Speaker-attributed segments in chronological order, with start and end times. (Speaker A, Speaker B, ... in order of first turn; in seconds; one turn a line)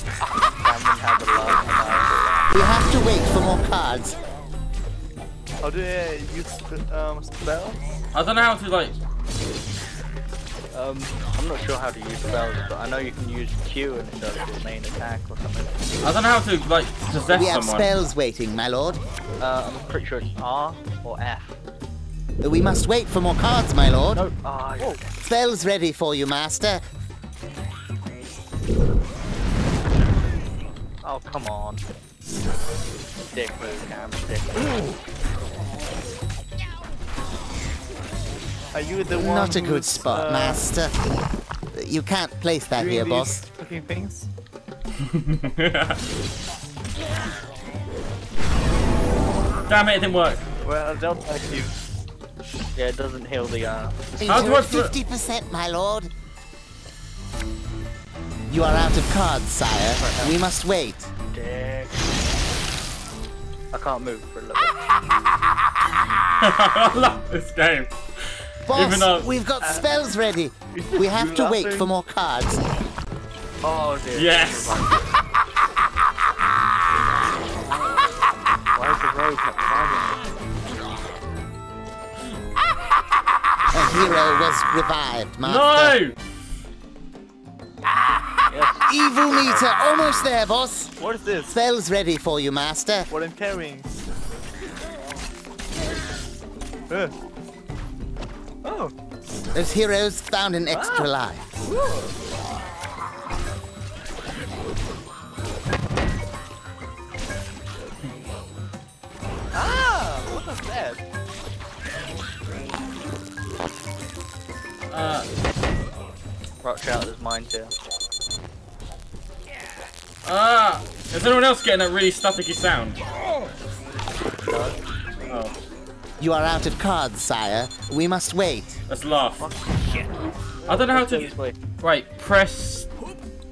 Speaker A: 0.6-2.5
Speaker B: 2.5-4.2
Speaker C: 5.6-7.8
Speaker D: 8.1-8.9
Speaker A: 10.7-15.7
Speaker D: 16.0-17.9
Speaker B: 17.3-19.0
Speaker A: 19.4-21.6
Speaker B: 22.4-24.2
Speaker A: 24.1-25.0
Speaker B: 25.2-26.8
Speaker A: 31.0-31.8
Speaker A: 33.3-34.7
Speaker C: 38.7-40.6
Speaker B: 39.2-40.9
Speaker B: 41.7-43.4
Speaker C: 42.8-44.3
Speaker D: 45.1-46.0
Speaker D: 49.7-50.4
Speaker C: 50.6-51.7
Speaker A: 52.7-54.4
Speaker B: 54.2-56.1
Speaker D: 54.2-54.9
Speaker B: 58.5-61.1
Speaker A: 60.0-60.4
Speaker A: 61.3-62.0
Speaker A: 63.7-64.7
Speaker D: 66.4-67.9
Speaker B: 68.7-72.6
Speaker D: 68.7-69.3
Speaker C: 69.6-69.9
Speaker C: 70.7-71.9
Speaker A: 73.6-75.1
Speaker D: 74.1-74.8
Speaker A: 78.7-80.3
Speaker B: 83.7-86.0
Speaker D: 85.4-86.1
Speaker A: 88.5-89.7
Speaker B: 88.9-90.9
Speaker C: 91.0-91.5
Speaker B: 91.5-93.1
Speaker C: 93.1-93.9
Speaker C: 98.6-98.9
Speaker B: 99.5-101.5
Speaker C: 100.7-101.1
Speaker C: 101.6-102.1
Speaker C: 109.5-111.0
Speaker D: 114.9-115.3
Speaker A: 116.6-117.7
Speaker D: 120.2-123.0
Speaker A: 124.4-124.8
Speaker D: 125.3-125.5
Speaker B: 126.2-128.8
Speaker D: 128.9-129.5
Speaker A: 129.4-131.6
Speaker D: 130.7-132.9